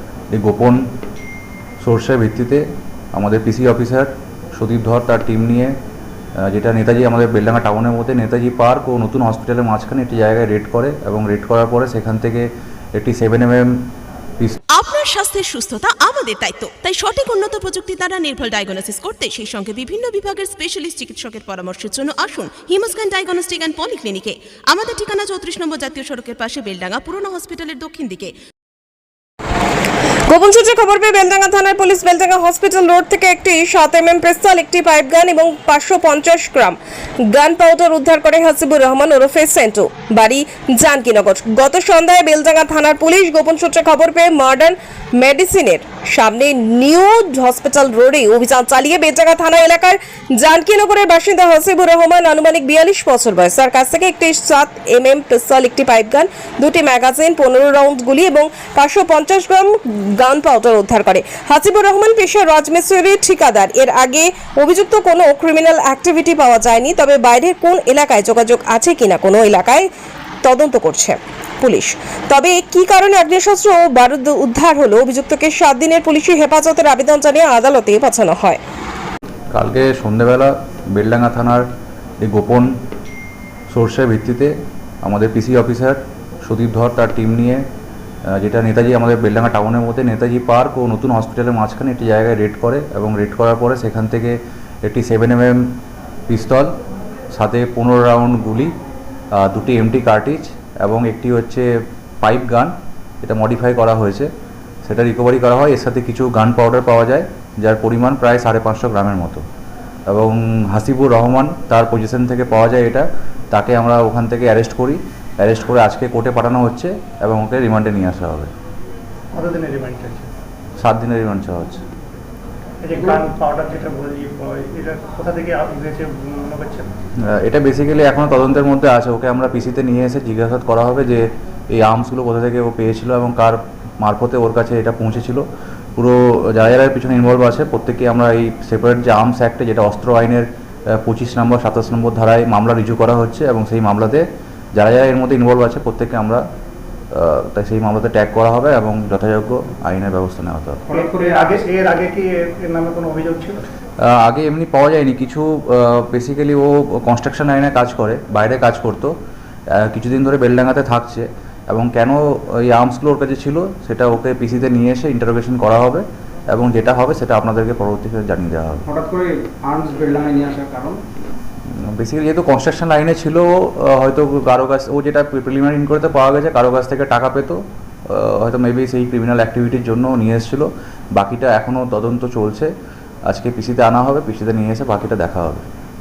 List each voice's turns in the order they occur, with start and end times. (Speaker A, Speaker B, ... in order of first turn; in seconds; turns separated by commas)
Speaker A: 0.3-0.8, Speaker A: 1.8-5.8, Speaker A: 6.4-13.9, Speaker B: 14.7-28.3, Speaker C: 30.3-36.8, Speaker C: 37.3-69.9, Speaker C: 70.4-78.6, Speaker A: 79.5-81.7, Speaker A: 82.2-82.7, Speaker A: 83.7-84.5, Speaker A: 85.0-87.6, Speaker A: 88.3-95.6, Speaker A: 96.3-96.7, Speaker A: 97.3-98.7, Speaker A: 99.4-101.7, Speaker A: 102.2-104.3, Speaker A: 104.9-109.4, Speaker A: 110.1-118.5, Speaker D: 119.3-120.3, Speaker A: 120.8-121.8, Speaker D: 122.8-126.9, Speaker E: 122.9-123.3, Speaker A: 127.3-135.5, Speaker A: 136.0-144.2, Speaker A: 144.8-146.4, Speaker A: 147.1-150.8, Speaker E: 150.9-151.8, Speaker D: 150.9-153.6, Speaker A: 154.0-159.1, Speaker A: 159.8-168.8, Speaker E: 168.9-171.0, Speaker A: 171.7-182.7, Speaker A: 183.3-185.7